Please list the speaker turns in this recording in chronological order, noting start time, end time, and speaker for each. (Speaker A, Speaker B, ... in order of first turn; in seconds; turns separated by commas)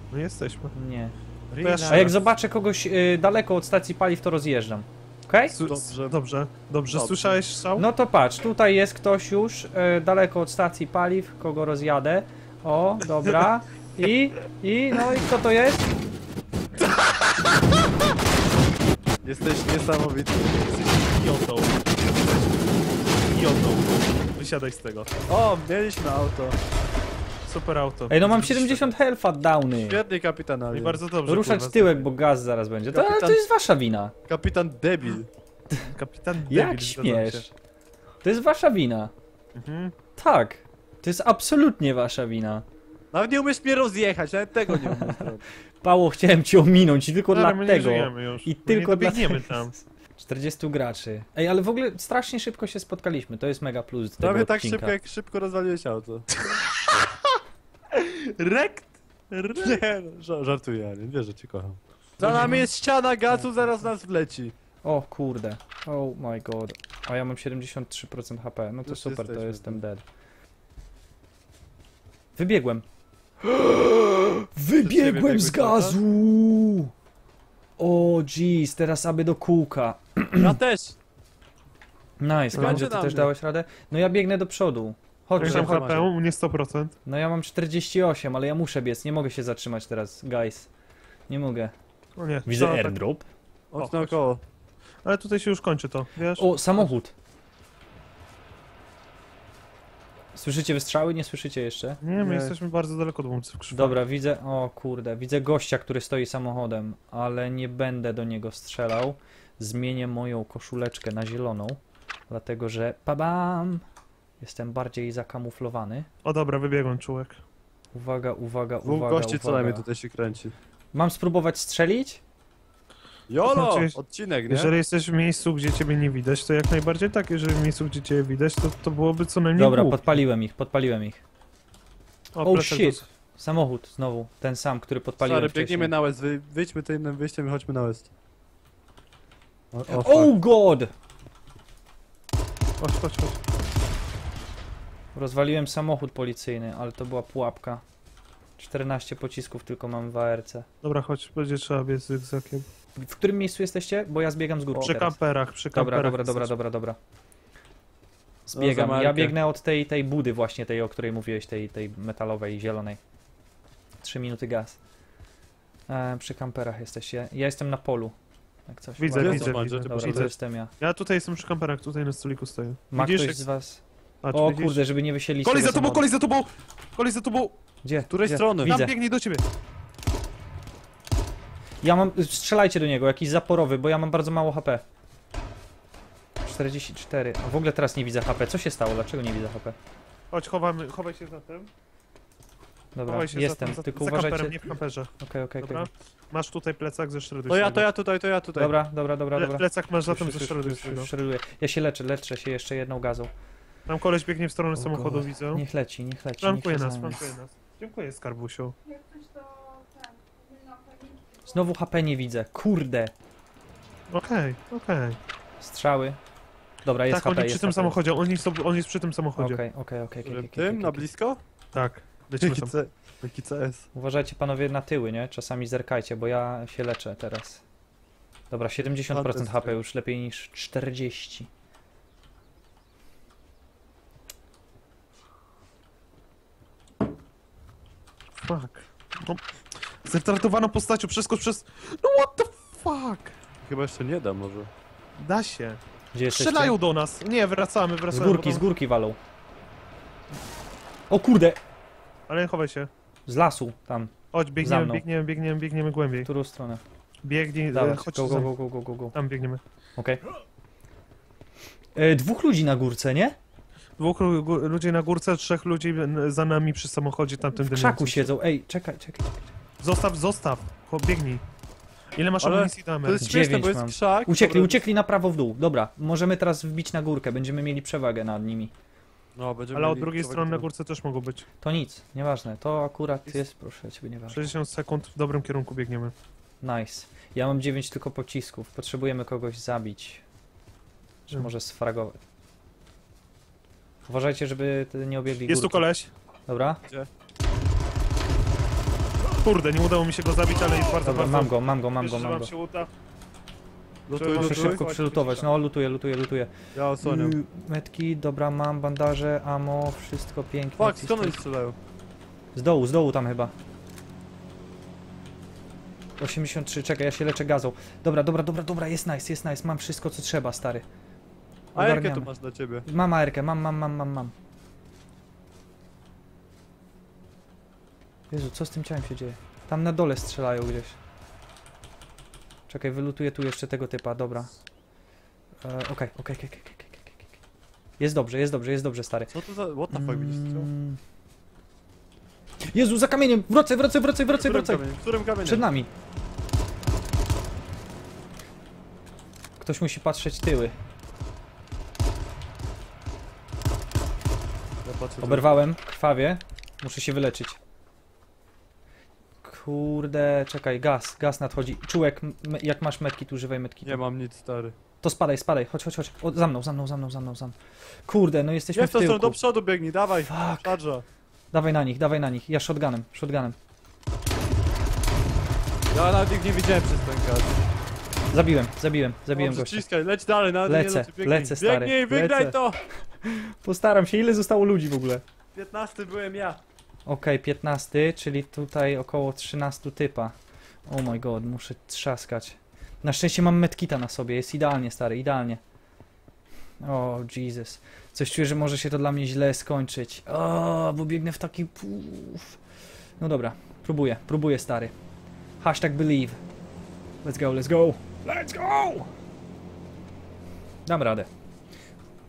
Speaker A: 0.1-0.7, Speaker B: 0.7-1.2, Speaker C: 1.5-2.1, Speaker A: 1.6-2.2, Speaker B: 1.9-5.5, Speaker A: 5.5-7.9, Speaker C: 5.6-6.1, Speaker C: 6.9-7.4, Speaker B: 7.8-15.9, Speaker C: 19.2-20.9, Speaker A: 20.9-22.4, Speaker A: 23.3-25.1, Speaker C: 25.3-26.6, Speaker A: 27.4-28.9, Speaker B: 28.1-30.0, Speaker C: 29.7-31.0, Speaker A: 30.7-32.0, Speaker B: 31.3-34.1, Speaker C: 32.9-33.4, Speaker C: 34.3-35.3, Speaker A: 35.8-37.5, Speaker B: 36.5-37.5, Speaker B: 38.2-39.1, Speaker A: 39.5-39.9, Speaker B: 40.2-42.6, Speaker C: 43.1-45.4, Speaker B: 44.7-55.0, Speaker A: 47.3-49.7, Speaker C: 54.2-56.2, Speaker A: 57.9-59.8, Speaker C: 59.5-64.5, Speaker B: 62.2-62.7, Speaker A: 62.2-62.5, Speaker B: 63.3-63.9, Speaker B: 64.8-70.0, Speaker C: 68.8-69.8, Speaker B: 72.4-72.8, Speaker B: 73.5-76.9, Speaker C: 74.8-76.0, Speaker B: 77.8-80.6, Speaker C: 80.4-81.0, Speaker B: 82.2-85.9, Speaker C: 82.5-83.3, Speaker A: 82.5-82.9, Speaker A: 85.4-87.0, Speaker C: 85.4-86.1, Speaker B: 87.0-90.7, Speaker B: 91.3-91.7, Speaker A: 92.2-93.0, Speaker B: 92.5-93.3, Speaker C: 93.7-94.4, Speaker A: 93.8-94.1, Speaker A: 95.0-96.9, Speaker B: 96.4-97.1, Speaker B: 100.3-102.0, Speaker A: 102.0-104.0, Speaker C: 102.2-102.5, Speaker B: 103.7-113.8, Speaker B: 114.4-116.1, Speaker A: 116.2-117.4, Speaker B: 117.9-119.9, Speaker C: 118.8-120.5, Speaker B: 120.9-122.2, Speaker C: 123.3-124.7, Speaker A: 123.4-130.0, Speaker B: 129.6-131.2, Speaker A: 132.3-133.1, Speaker B: 132.4-135.9, Speaker C: 135.2-138.1, Speaker C: 139.7-140.3, Speaker B: 139.9-140.9, Speaker A: 142.8-143.4, Speaker B: 145.1-147.8, Speaker B: 148.6-150.7, Speaker A: 150.8-152.7, Speaker B: 152.9-155.2, Speaker A: 154.7-156.5, Speaker B: 155.7-157.0, Speaker B: 158.4-163.0, Speaker C: 158.5-159.3, Speaker B: 164.0-164.8, Speaker B: 165.9-168.1, Speaker B: 168.7-170.7, Speaker A: 169.0-173.4, Speaker C: 169.2-170.3, Speaker B: 172.9-176.1, Speaker A: 174.2-174.8, Speaker A: 175.4-177.6, Speaker B: 177.8-178.9, Speaker C: 178.1-178.8, Speaker A: 178.6-179.4, Speaker B: 181.8-184.8, Speaker B: 186.4-189.8, Speaker A: 190.3-191.7, Speaker B: 192.9-194.6, Speaker A: 193.1-195.1, Speaker B: 195.2-195.9, Speaker A: 195.6-197.9, Speaker C: 197.5-198.7, Speaker B: 198.6-203.3, Speaker A: 199.3-201.1, Speaker A: 203.9-205.6, Speaker B: 204.8-207.2, Speaker A: 206.4-208.8, Speaker B: 211.4-213.1, Speaker A: 214.1-215.2, Speaker B: 215.6-216.2, Speaker B: 216.8-218.0, Speaker A: 217.1-219.6, Speaker B: 219.4-221.1, Speaker C: 220.2-221.4, Speaker A: 221.7-222.8, Speaker C: 222.4-223.9, Speaker B: 223.9-227.6, Speaker B: 228.5-231.5, Speaker C: 228.9-229.7, Speaker A: 238.4-239.4, Speaker A: 240.0-243.3, Speaker C: 243.6-244.7, Speaker A: 245.2-248.6, Speaker B: 246.1-246.8, Speaker B: 248.1-249.2, Speaker B: 251.1-251.6, Speaker A: 252.3-252.9, Speaker B: 253.2-255.0, Speaker A: 254.3-256.3, Speaker B: 256.2-256.8, Speaker A: 257.2-258.5, Speaker B: 257.7-259.1, Speaker A: 259.1-259.6, Speaker B: 260.0-260.2, Speaker B: 261.9-263.4, Speaker A: 264.0-268.3, Speaker B: 267.6-269.5, Speaker A: 269.8-271.4, Speaker A: 272.1-273.3, Speaker C: 272.4-274.8, Speaker B: 273.2-278.7, Speaker C: 279.3-280.7, Speaker A: 279.7-281.4, Speaker B: 281.6-284.5, Speaker A: 284.3-286.1, Speaker B: 286.6-290.2, Speaker B: 291.3-292.2, Speaker B: 294.1-295.9, Speaker A: 295.5-296.1, Speaker B: 296.5-296.8, Speaker A: 299.4-302.9, Speaker B: 301.0-302.5, Speaker C: 304.1-304.8, Speaker A: 304.1-305.5, Speaker B: 304.3-311.4, Speaker C: 306.8-307.4, Speaker C: 310.8-311.8, Speaker B: 312.5-313.5, Speaker B: 316.2-320.9, Speaker B: 321.7-322.3, Speaker C: 321.8-322.9, Speaker B: 322.9-324.3, Speaker B: 328.3-331.0, Speaker B: 332.7-334.6, Speaker B: 335.6-337.4, Speaker B: 338.0-339.3, Speaker C: 339.3-340.7, Speaker B: 339.9-341.0, Speaker B: 342.7-344.8, Speaker C: 344.3-345.6, Speaker B: 345.4-345.9, Speaker B: 349.6-350.8, Speaker C: 354.8-355.5, Speaker B: 355.2-357.6, Speaker B: 359.4-364.0, Speaker C: 363.8-364.8, Speaker B: 365.0-369.4, Speaker C: 368.7-371.0, Speaker B: 370.2-370.8, Speaker B: 371.5-373.6, Speaker C: 375.9-377.6, Speaker B: 378.3-379.9, Speaker C: 379.3-382.8, Speaker B: 380.6-382.6, Speaker B: 383.2-385.2, Speaker C: 385.5-386.6, Speaker B: 387.1-390.3, Speaker B: 390.9-395.6, Speaker B: 396.8-402.6, Speaker B: 403.2-404.9, Speaker B: 405.6-406.4, Speaker B: 407.2-409.1, Speaker B: 410.9-411.3